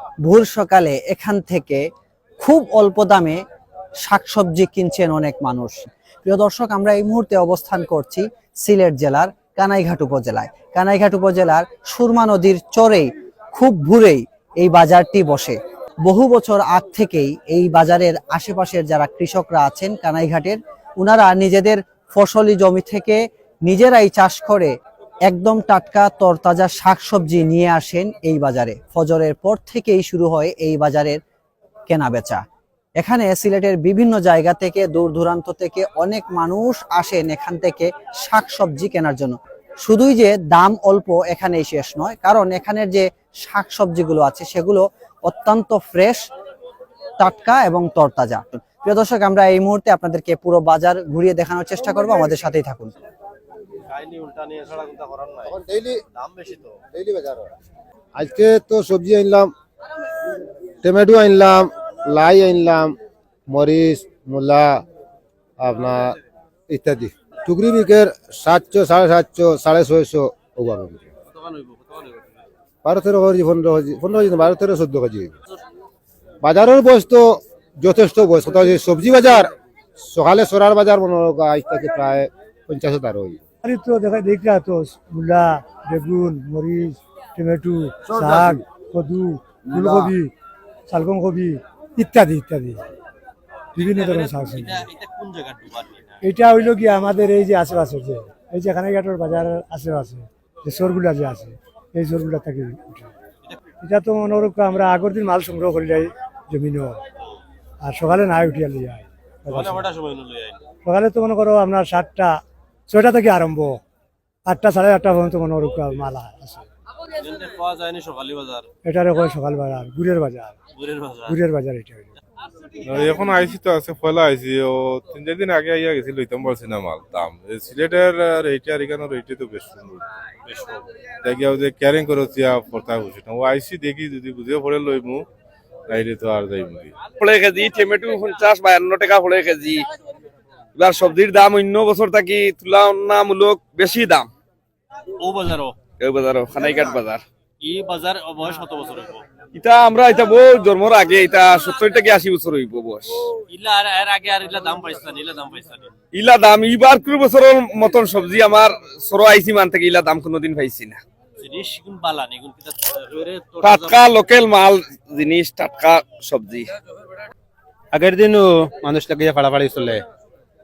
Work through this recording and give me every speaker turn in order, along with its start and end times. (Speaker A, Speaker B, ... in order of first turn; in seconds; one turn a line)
Speaker A: 0.2-1.8
Speaker A: 2.4-3.4
Speaker A: 4.0-24.7
Speaker A: 25.2-31.2
Speaker A: 31.9-32.4
Speaker A: 33.0-46.2
Speaker A: 47.2-52.9
Speaker B: 53.9-55.6
Speaker C: 55.4-56.0
Speaker B: 56.1-56.8
Speaker C: 56.9-57.5
Speaker C: 58.1-59.5
Speaker C: 60.8-62.9
Speaker C: 63.5-64.8
Speaker C: 65.6-71.1
Speaker B: 71.4-72.2
Speaker C: 72.8-75.3
Speaker C: 76.4-83.4
Speaker D: 83.6-90.3
Speaker C: 88.0-88.6
Speaker C: 89.7-90.1
Speaker D: 90.9-92.8
Speaker D: 93.8-94.9
Speaker B: 93.8-96.2
Speaker D: 96.2-103.1
Speaker D: 103.8-107.0
Speaker D: 107.8-109.9
Speaker B: 109.5-110.6
Speaker D: 110.8-113.8
Speaker D: 114.4-116.6
Speaker B: 117.1-118.7
Speaker D: 118.8-120.5
Speaker B: 120.8-121.4
Speaker D: 121.3-122.1
Speaker E: 122.8-135.2
Speaker E: 135.9-136.9
Speaker F: 137.2-139.8
Speaker F: 140.8-144.3
Speaker B: 145.2-145.8
Speaker F: 146.0-147.2
Speaker B: 147.6-149.2
Speaker F: 149.5-153.2
Speaker B: 153.5-155.9
Speaker F: 156.1-161.0
Speaker B: 161.4-164.0
Speaker F: 163.6-166.7
Speaker G: 167.9-170.0